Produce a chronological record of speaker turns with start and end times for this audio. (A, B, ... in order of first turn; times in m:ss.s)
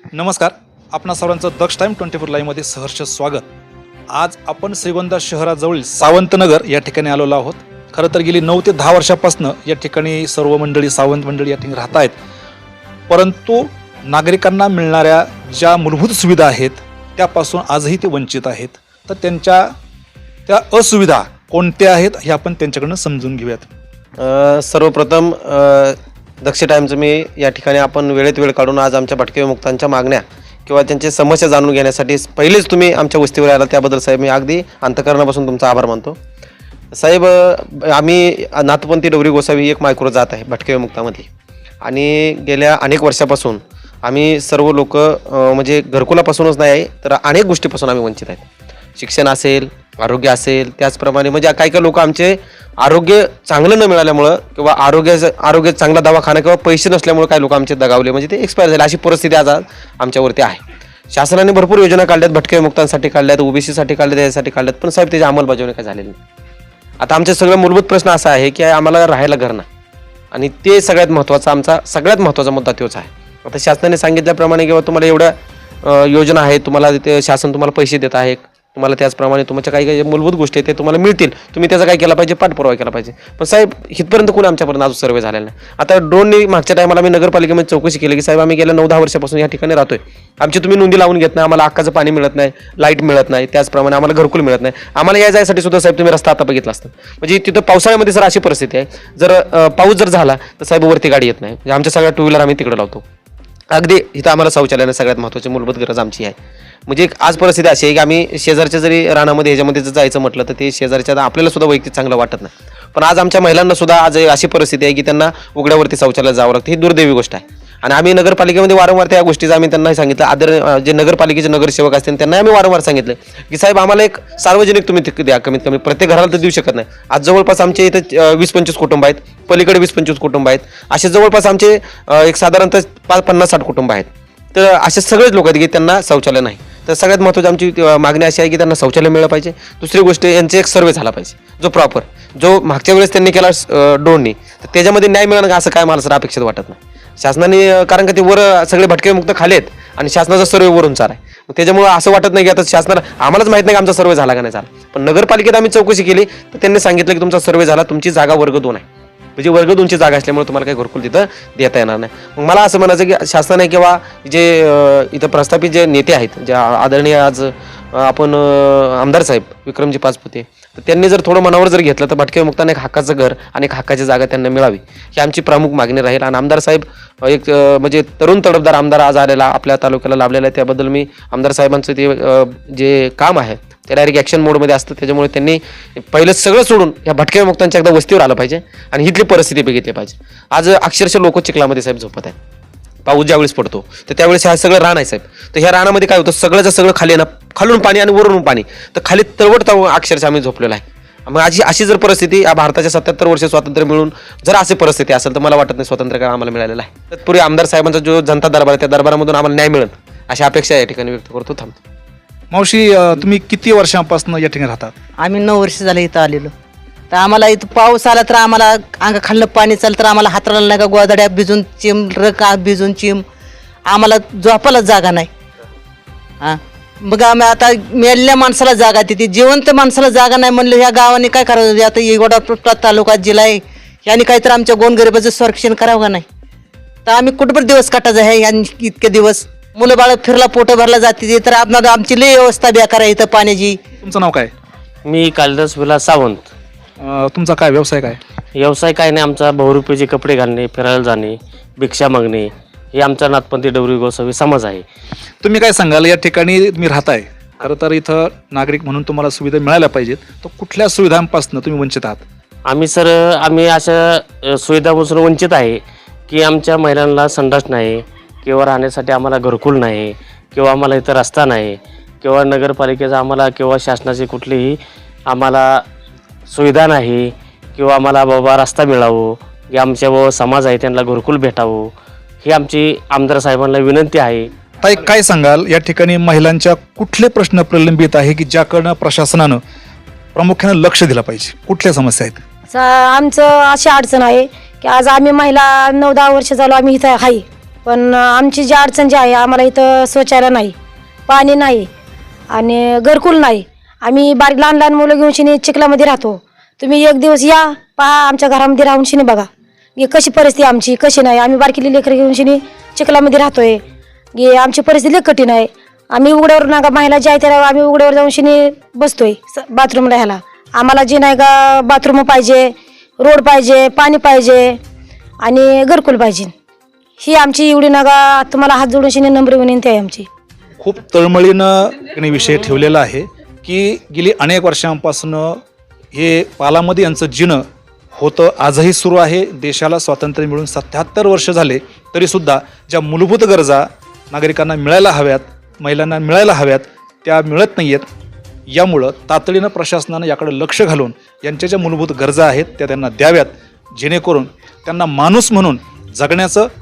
0:00.1-0:03.4 A
0:04.1-0:12.1 A
0:13.1-0:19.7 A
0:20.5-0:23.7 A
0:24.2-0:36.2 B
0:36.9-0:41.3 B
0:41.8-1:06.2 B
1:07.0-1:09.6 B
1:10.3-1:43.0 B
1:43.7-1:46.4 B
1:46.9-2:38.8 B
2:39.4-3:12.4 B
3:13.0-3:31.8 B
3:32.5-3:35.0 A
3:35.2-3:36.5 C
3:37.1-3:43.2 C
3:43.9-3:45.3 C
3:46.4-3:56.3 C
3:57.1-4:03.8 C
4:04.0-4:04.5 A
4:05.1-4:06.5 D
4:07.0-4:08.2 A
4:08.6-4:14.8 D
4:15.4-4:22.2 A
4:22.7-4:35.8 D
4:36.5-4:41.9 D
4:42.4-4:44.5 D
4:44.8-4:49.6 A
4:50.4-4:52.4 A
4:52.7-5:00.8 E
5:01.3-5:01.9 E
5:02.5-5:13.8 E
5:14.3-5:24.8 E
5:25.4-5:26.5 E
5:27.2-5:30.3 E
5:30.8-5:35.6 A
5:36.1-5:37.6 A
5:38.2-5:48.0 A
5:48.7-5:56.7 A